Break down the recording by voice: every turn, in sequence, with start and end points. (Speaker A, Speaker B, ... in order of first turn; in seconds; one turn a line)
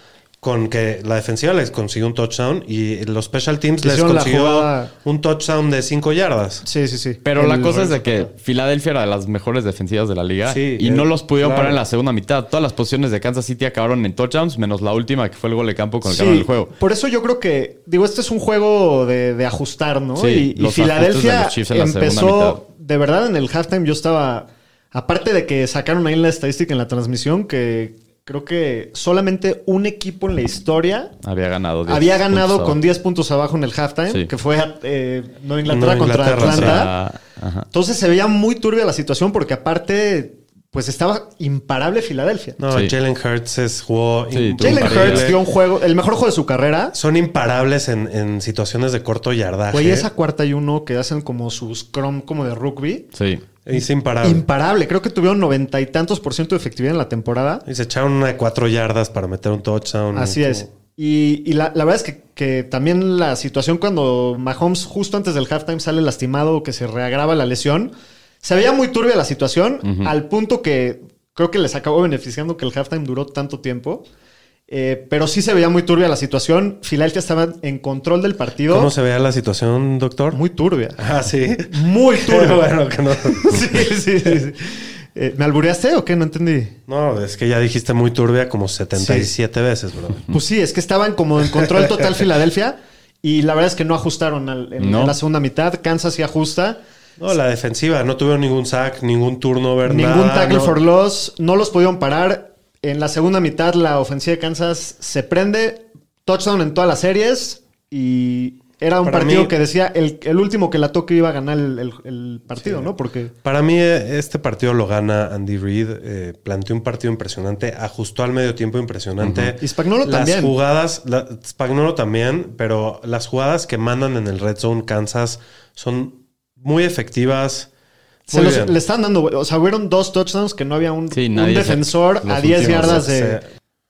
Speaker A: 0.4-6.6
Speaker B: 3.8-4.9
Speaker B: 6.6-8.3
Speaker C: 7.2-16.7
Speaker A: 10.4-11.8
Speaker B: 16.0-31.1
Speaker C: 20.2-22.6
Speaker C: 31.2-32.8
Speaker B: 31.9-36.9
Speaker A: 35.6-36.9
Speaker C: 36.4-37.7
Speaker B: 37.7-42.6
Speaker A: 42.6-45.4
Speaker C: 44.3-45.3
Speaker B: 44.6-46.9
Speaker A: 46.9-50.1
Speaker B: 49.7-53.1
Speaker C: 53.1-53.4
Speaker A: 53.6-54.4
Speaker B: 54.2-57.6
Speaker A: 57.6-60.7
Speaker B: 60.1-74.0
Speaker C: 69.8-70.1
Speaker B: 74.7-78.9
Speaker A: 78.7-80.4
Speaker B: 80.3-81.0
Speaker A: 81.0-83.9
Speaker B: 81.7-82.6
Speaker B: 83.3-86.8
Speaker A: 86.9-90.2
Speaker B: 89.0-89.3
Speaker B: 90.3-96.8
Speaker C: 94.8-95.2
Speaker A: 97.2-100.8
Speaker B: 99.8-113.3
Speaker A: 109.0-109.5
Speaker A: 112.6-112.9
Speaker A: 113.4-127.7
Speaker C: 119.2-119.5
Speaker B: 119.6-120.5
Speaker A: 128.3-128.8
Speaker B: 128.3-133.4
Speaker C: 131.1-133.0
Speaker A: 132.6-133.4